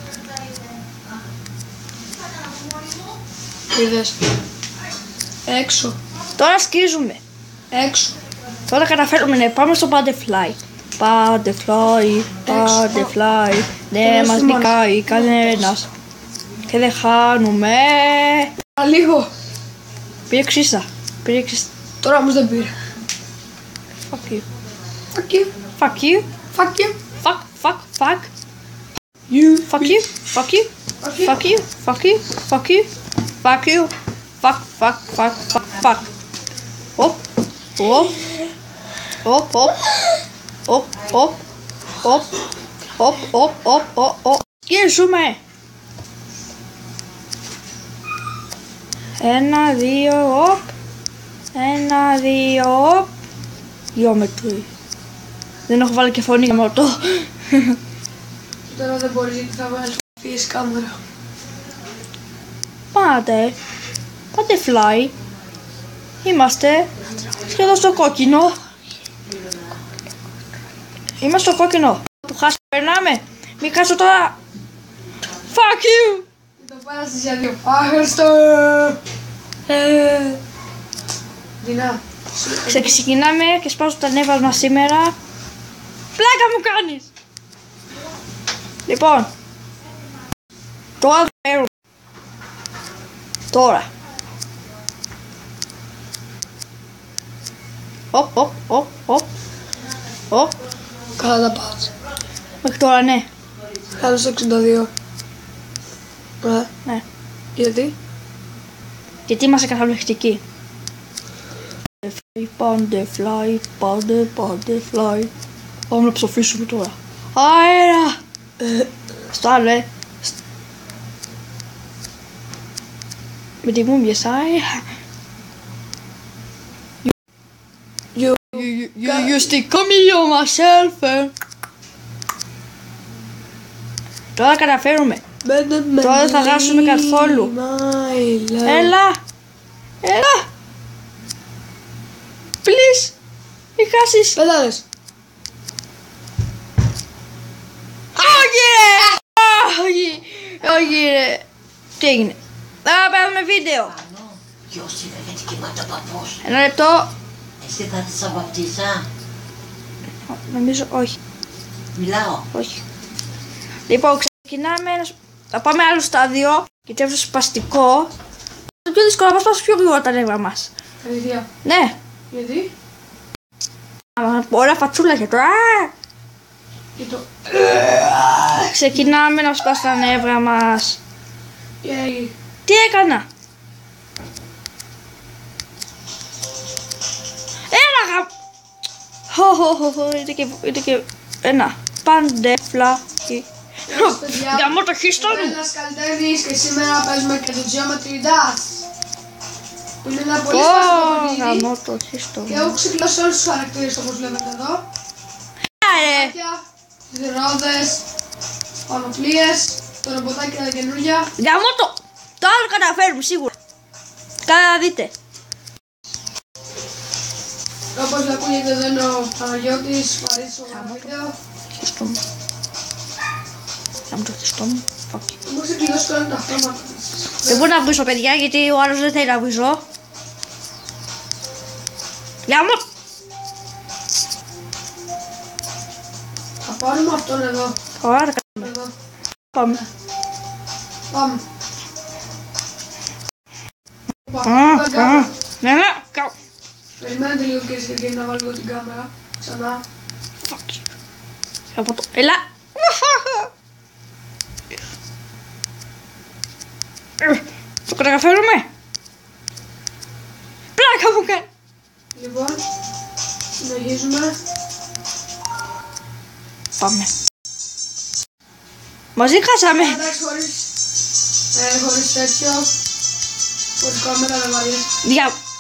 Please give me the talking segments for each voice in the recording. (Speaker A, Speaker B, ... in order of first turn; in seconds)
Speaker A: 3.7-4.2, 5.5-6.0, 7.7-8.2, 12.5-13.1, 14.0-14.8, 18.8-19.3, 22.0-22.7, 25.1-25.5, 26.5-27.0, 29.3-30.0, 31.0-31.4, 58.7-61.0, 76.6-79.0, 79.7-80.4, 81.6-83.0, 101.2-101.9, 103.9-104.9, 106.4-106.7, 107.6-108.0, 128.2-129.4, 135.4-138.9, 144.4-144.8, 171.0-171.5, 172.3-172.7, 177.0-178.6, 181.8-182.3, 193.9-198.8, 200.0-201.7, 202.5-204.8, 205.8-208.1, 208.9-211.3, 217.9-221.3, 225.5-227.7, 236.6-237.8, 238.6-238.9, 241.1-241.4, 244.3-245.3, 247.0-249.8, 262.1-262.6, 263.6-264.4, 269.8-270.7, 271.5-272.7, 273.8-274.9
Speaker B: 6.4-7.2, 8.7-15.9, 16.7-18.5, 20.3-21.7, 24.1-24.4, 25.8-26.3, 27.2-28.3, 29.7-30.7, 31.2-32.9, 33.4-36.1, 37.8-38.2, 39.2-39.8, 40.7-41.4, 42.0-42.3, 43.0-45.4, 49.2-50.7, 51.5-53.1, 54.0-54.7, 55.7-57.8, 62.9-63.6, 64.3-65.1, 66.2-66.9, 67.4-68.6, 71.2-74.4, 75.4-76.2, 82.7-85.2, 86.2-87.1, 88.9-89.3, 91.0-91.7, 93.5-93.9, 98.1-99.3, 102.6-103.3, 109.3-110.4, 112.0-115.3, 115.9-118.2, 119.3-120.3, 123.6-124.8, 128.5-131.3, 134.4-135.2, 136.0-137.5, 138.6-139.2, 140.0-140.5, 142.6-143.1, 143.8-144.4, 148.2-151.4, 152.0-154.0, 156.4-157.1, 160.3-161.2, 162.5-162.8, 163.9-168.1, 168.8-170.7, 171.6-171.9, 174.2-175.9, 178.5-181.0, 182.7-183.3, 187.7-188.3, 189.3-195.6, 200.5-202.8, 205.8-206.3, 211.4-213.5, 214.4-215.1, 220.7-221.1, 221.7-222.2, 224.1-225.4, 227.5-229.8, 232.5-232.8, 238.0-238.7, 239.5-239.8, 244.4-246.3, 250.4-250.8, 251.7-253.5, 257.2-258.7, 260.8-261.5, 266.8-267.1, 269.2-270.0, 275.0-275.4
Speaker C: 154.1-156.4, 157.6-159.1, 161.9-162.4